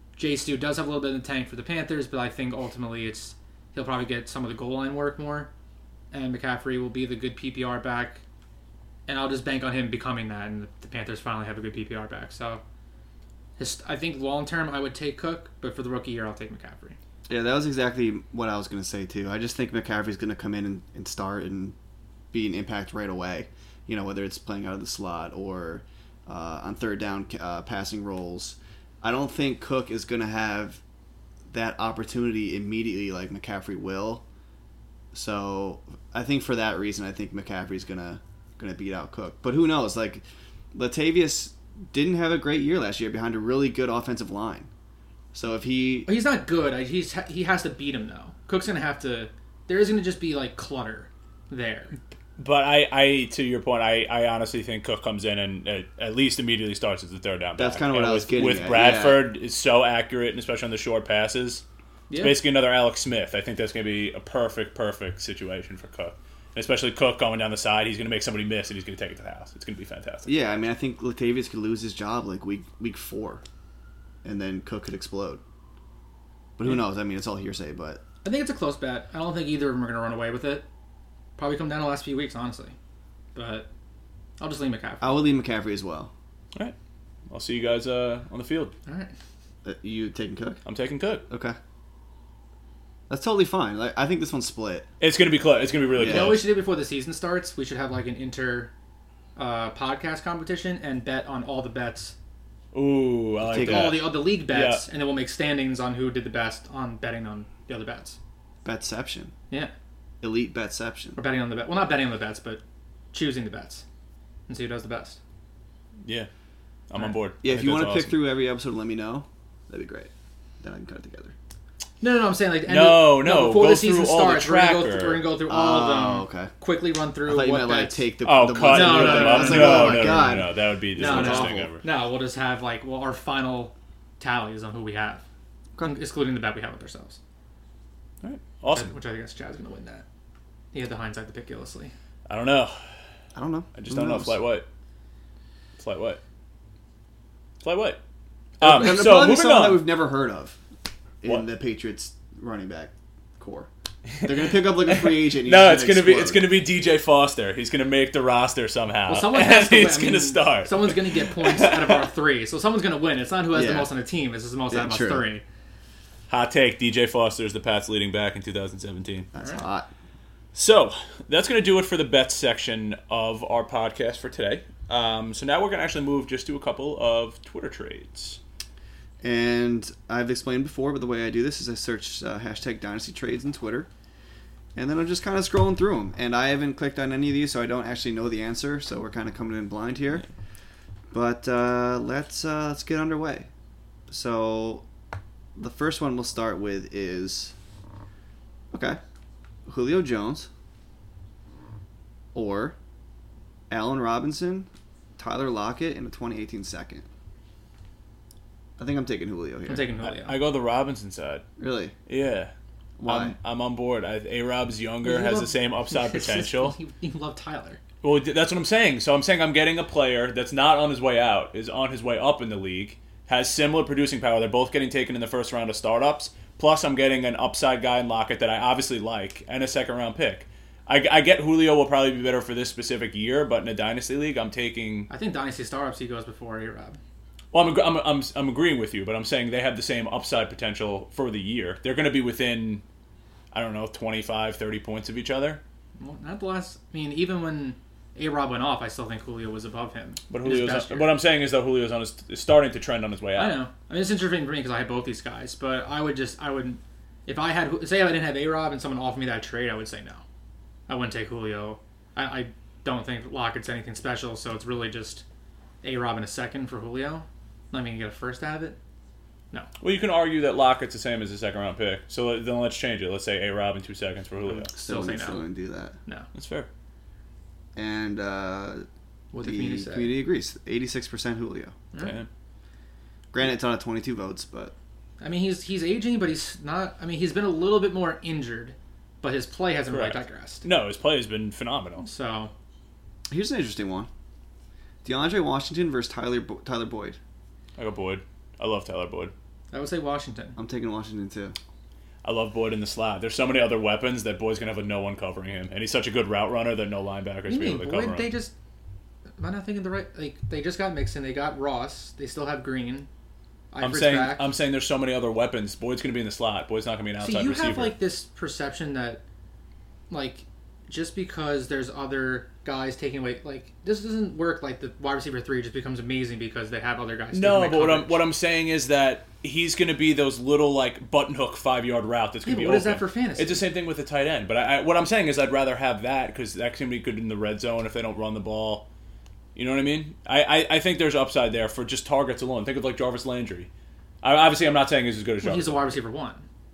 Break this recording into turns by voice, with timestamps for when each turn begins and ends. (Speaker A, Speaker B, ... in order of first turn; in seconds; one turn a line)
Speaker A: 0.1-5.5
Speaker A: 6.1-8.2
Speaker A: 9.1-12.6
Speaker A: 13.6-17.0
Speaker B: 17.3-21.7
Speaker B: 22.3-30.8
Speaker B: 31.5-34.2
Speaker B: 35.1-44.7
Speaker B: 45.3-46.1
Speaker A: 46.1-51.9
Speaker C: 52.4-61.6
Speaker B: 57.6-59.2
Speaker A: 62.1-62.4
Speaker C: 62.2-70.3
Speaker B: 70.3-73.4
Speaker B: 74.2-75.4
Speaker B: 76.6-78.0
Speaker A: 78.2-80.7
Speaker A: 81.4-82.7
Speaker A: 83.3-83.7
Speaker A: 84.4-85.2
Speaker B: 85.0-86.1
Speaker C: 87.3-88.7
Speaker A: 88.8-89.1
Speaker B: 89.6-90.6
Speaker C: 90.6-91.2
Speaker B: 91.3-91.6
Speaker B: 93.1-94.9
Speaker C: 95.0-96.5
Speaker B: 95.9-96.4
Speaker A: 96.0-98.7
Speaker A: 99.3-102.1
Speaker C: 102.7-104.8
Speaker B: 103.4-104.1
Speaker A: 103.5-108.2
Speaker B: 108.6-109.3
Speaker B: 110.2-111.2
Speaker A: 111.2-112.6
Speaker A: 113.1-113.8
Speaker A: 114.5-115.2
Speaker C: 116.0-116.3
Speaker C: 116.9-118.2
Speaker B: 117.4-121.3
Speaker A: 122.0-130.2
Speaker C: 122.7-125.2
Speaker B: 125.5-126.5
Speaker B: 127.2-131.7
Speaker C: 128.2-131.8
Speaker A: 131.0-135.2
Speaker A: 135.8-137.2
Speaker C: 138.2-138.9
Speaker A: 138.7-140.0
Speaker A: 140.7-141.9
Speaker C: 142.3-142.8
Speaker B: 143.3-144.4
Speaker C: 143.7-144.7
Speaker C: 145.8-146.2
Speaker C: 147.6-148.0
Speaker C: 148.6-149.9
Speaker B: 148.6-150.6
Speaker B: 151.2-153.7
Speaker C: 154.2-162.1
Speaker B: 154.2-156.5
Speaker A: 159.1-165.4
Speaker B: 163.5-163.9
Speaker B: 164.7-165.2
Speaker C: 166.3-169.3
Speaker B: 169.3-169.9
Speaker C: 170.5-178.4
Speaker B: 179.2-183.9
Speaker B: 184.7-190.2
Speaker B: 191.1-193.5
Speaker B: 194.1-194.8
Speaker B: 195.6-197.5
Speaker B: 198.7-199.0
Speaker B: 199.7-200.5
Speaker B: 202.3-202.8
Speaker B: 203.7-207.1
Speaker B: 208.8-209.9
Speaker A: 209.7-210.4
Speaker C: 210.0-211.4
Speaker B: 211.6-211.9
Speaker C: 212.1-212.5
Speaker B: 213.0-213.3
Speaker C: 213.0-216.7
Speaker A: 215.0-217.8
Speaker C: 218.0-235.1
Speaker A: 235.1-237.0
Speaker C: 237.5-242.8
Speaker C: 243.5-245.6
Speaker A: 246.0-251.1
Speaker C: 250.3-253.6
Speaker A: 253.3-260.2
Speaker A: 260.9-265.2
Speaker A: 265.8-268.8
Speaker C: 269.8-274.7
Speaker A: 274.5-275.5
Speaker B: 274.8-275.9
Speaker C: 276.3-276.7
Speaker B: 277.7-278.9
Speaker A: 279.3-280.1
Speaker B: 279.4-281.8
Speaker A: 281.9-282.2
Speaker C: 282.0-282.3
Speaker B: 283.3-284.7
Speaker A: 285.2-290.6
Speaker C: 289.9-292.1
Speaker A: 292.0-292.5
Speaker B: 293.3-294.1
Speaker B: 295.0-297.2
Speaker C: 297.8-299.3
Speaker A: 299.7-300.6
Speaker B: 300.6-301.6
Speaker C: 302.2-308.3
Speaker A: 307.5-308.5
Speaker A: 309.4-313.1
Speaker A: 313.7-314.5
Speaker C: 313.8-317.9
Speaker A: 317.2-319.2
Speaker A: 320.1-328.2
Speaker C: 327.3-338.9
Speaker A: 332.4-333.6
Speaker C: 339.5-343.7
Speaker C: 344.2-345.8
Speaker A: 345.4-346.4